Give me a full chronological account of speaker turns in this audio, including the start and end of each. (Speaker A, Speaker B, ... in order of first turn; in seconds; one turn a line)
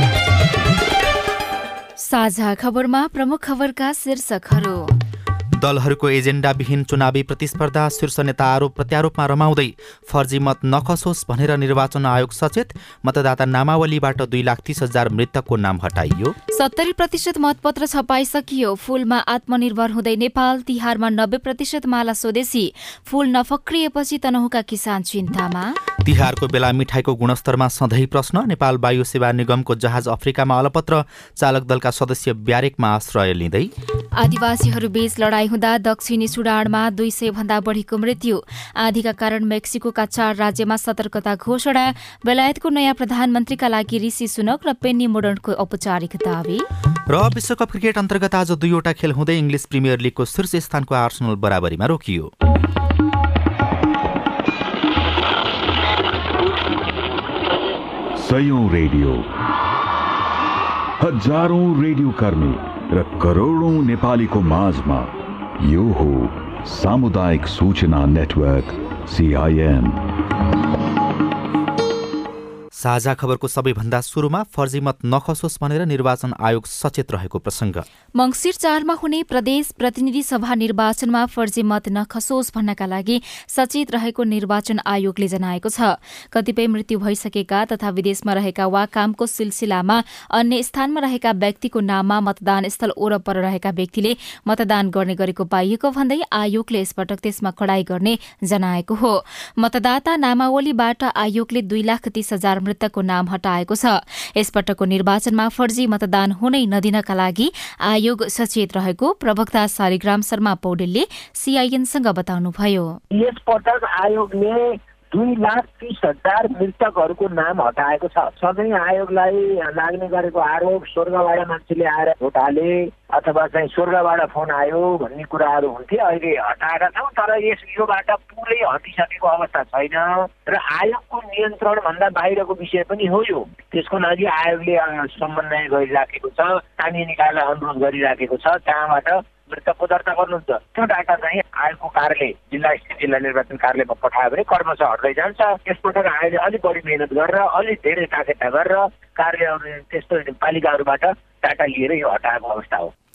Speaker A: 2.0-4.9
Speaker B: 5.5-16.4
Speaker A: 16.5-25.8
Speaker B: 26.0-33.7
Speaker A: 34.2-46.6
Speaker B: 47.1-52.3
Speaker C: 58.2-59.3
Speaker C: 61.0-65.1
Speaker C: 65.6-70.0
Speaker B: 72.8-77.9
Speaker A: 78.2-112.9
Speaker D: 113.1-152.9